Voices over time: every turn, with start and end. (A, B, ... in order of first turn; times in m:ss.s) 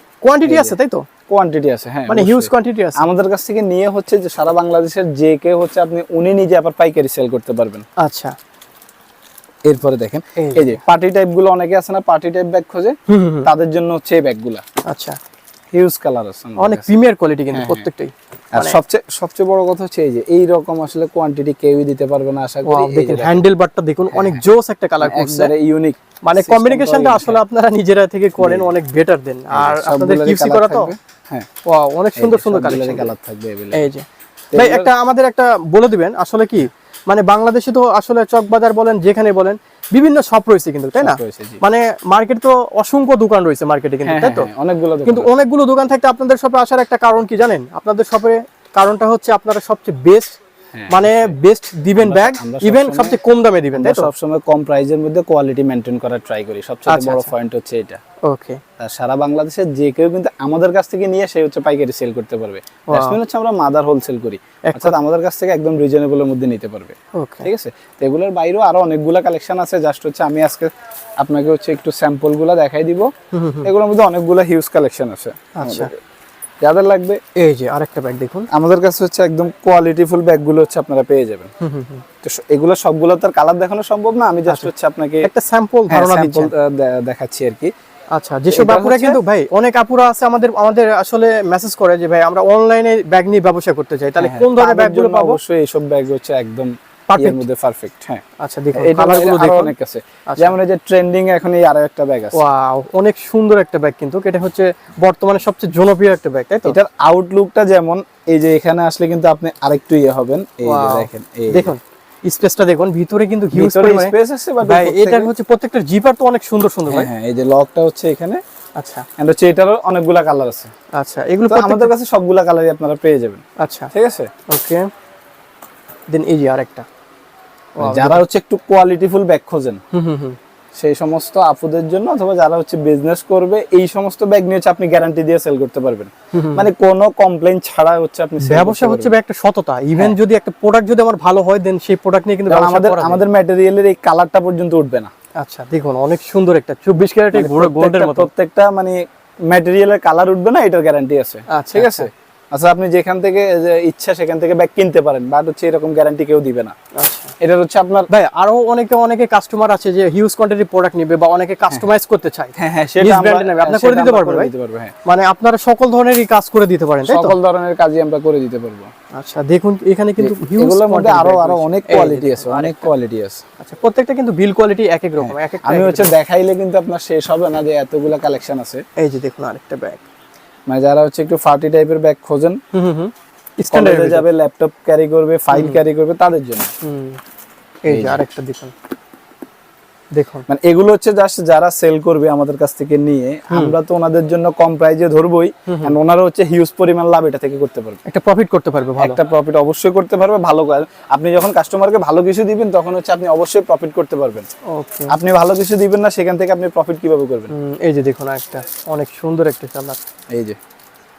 0:00.2-0:01.0 A
0:00.4-0:00.8 B
0:01.3-0:07.8 B
0:02.1-0:03.0 A
0:08.0-0:08.3 A
0:09.6-0:14.6 B
0:10.4-0:10.8 A
0:13.1-0:13.5 A
0:14.9-0:15.2 A
0:15.7-0:17.0 B
0:16.6-0:18.8 A
0:17.5-0:17.9 B
0:18.5-0:23.4 B
0:22.6-0:25.5 A
0:24.1-0:24.4 B
0:25.0-0:27.4 B
0:26.2-0:30.9 A
0:28.4-0:28.7 B
0:29.5-0:31.5 B
0:31.6-0:33.1 A
0:32.2-0:33.9 B
0:33.7-0:44.5 A
0:34.5-0:34.9 B
0:41.0-0:41.6 B
0:44.0-0:45.3 B
0:45.0-0:50.4 A
0:50.7-0:51.3 B
0:50.9-0:54.1 A
0:52.0-0:53.2 B
0:53.8-0:58.0 B
0:56.9-0:57.3 A
0:58.3-0:58.6 A
0:58.8-1:10.7 B
1:02.9-1:03.2 A
1:04.7-1:05.0 A
1:07.2-1:07.5 A
1:11.2-1:13.1 B
1:13.3-1:13.7 A
1:13.6-1:15.9 B
1:15.6-1:15.9 A
1:16.6-1:17.2 B
1:17.4-1:18.5 A
1:18.5-1:21.5 B
1:21.6-1:22.0 A
1:22.2-1:25.3 B
1:25.2-1:26.5 A
1:25.9-1:27.7 B
1:28.1-1:35.4 A
1:28.5-1:29.2 B
1:34.2-1:38.2 B
1:37.1-1:37.4 A
1:38.4-1:39.7 A
1:38.7-1:42.4 B
1:40.3-1:40.6 A
1:42.3-1:46.8 A
1:46.6-1:51.7 B
1:50.6-1:57.1 A
1:53.5-1:55.3 B
1:56.9-1:58.4 B
1:58.8-1:59.0 A
1:59.2-2:00.7 B
2:01.0-2:01.9 A
2:01.5-2:04.3 B
2:03.6-2:03.9 A
2:04.5-2:04.8 A
2:06.1-2:06.8 A
2:07.8-2:08.2 A
2:07.8-2:09.8 B
2:09.9-2:10.4 A
2:10.8-2:19.1 B
2:16.3-2:16.7 A
2:18.4-2:23.2 A
2:22.5-2:25.1 B
2:25.4-2:28.3 A
2:27.3-2:36.7 B
2:31.5-2:32.1 A
2:37.0-2:37.3 A
2:37.4-2:38.1 B
2:38.1-2:44.5 A
2:42.6-2:44.9 B
2:45.0-2:47.3 A
2:47.0-2:48.9 B
2:49.1-2:52.9 A
2:50.2-2:53.4 B
2:53.6-2:56.1 A
2:55.2-2:58.8 B
2:59.0-3:00.0 A
3:00.7-3:02.6 B
3:02.7-3:04.3 A
3:03.7-3:06.7 B
3:05.5-3:05.8 A
3:06.8-3:07.2 A
3:07.8-3:08.7 A
3:07.9-3:08.2 B
3:10.1-3:10.4 A
3:10.5-3:18.0 B
3:15.7-3:15.9 A
3:18.1-3:19.2 A
3:19.0-3:24.4 B
3:24.7-3:25.1 A
3:25.1-3:27.5 B
3:27.5-3:30.0 A
3:30.3-3:30.6 B